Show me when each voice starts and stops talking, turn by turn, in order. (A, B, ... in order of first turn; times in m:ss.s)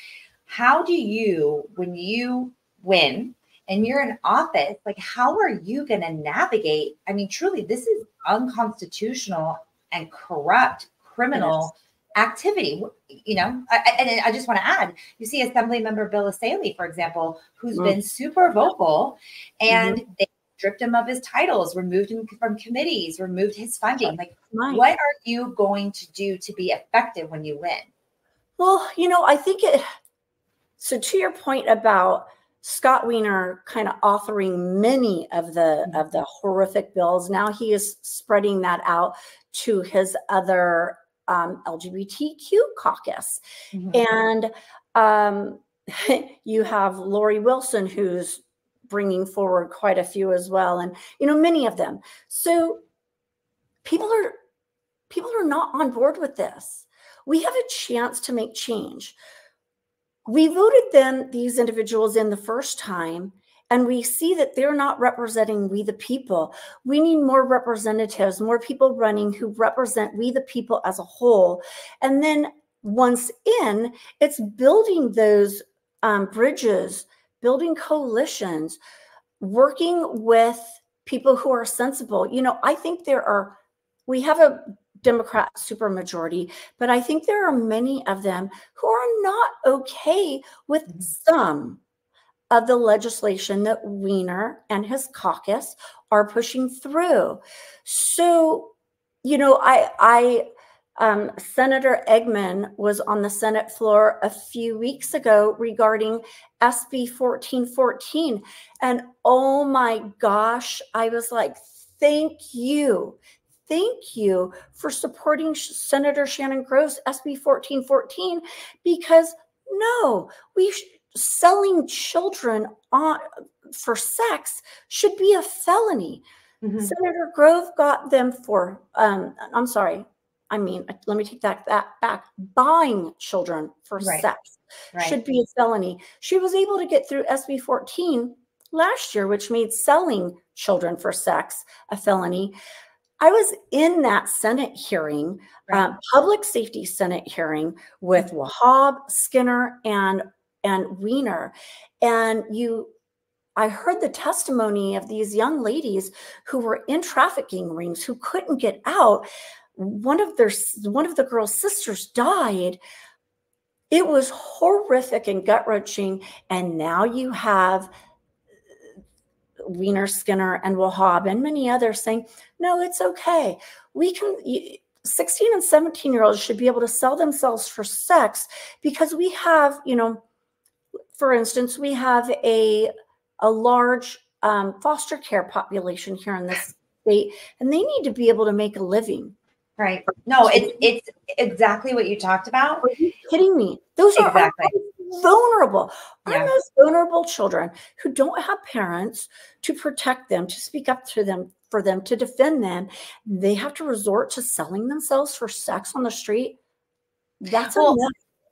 0:00.5-0:27.9 A
0:11.3-0:11.7 B
0:19.7-0:20.0 B
0:24.5-0:24.8 B
0:28.6-0:29.8 B
0:30.8-0:43.4 B
0:43.7-0:44.0 A
0:43.9-0:52.8 B
0:53.8-0:54.4 B
0:55.1-0:59.2 B
1:00.3-1:18.8 B
1:19.4-1:23.6 B
1:24.1-1:31.8 B
1:32.5-1:40.5 B
1:41.0-2:06.2 B
2:06.6-2:06.9 A
2:06.8-2:22.5 B
2:14.0-2:14.2 A
2:23.2-2:32.9 B
2:33.6-2:42.8 B
2:43.9-2:47.9 B
2:49.6-3:00.2 B
3:01.2-3:02.9 B
3:03.4-3:09.4 B
3:09.8-3:12.9 A
3:10.4-3:10.9 B
3:12.8-3:26.6 B
3:14.2-3:14.7 A
3:16.3-3:16.5 A
3:27.4-3:28.1 B
3:27.6-3:28.0 A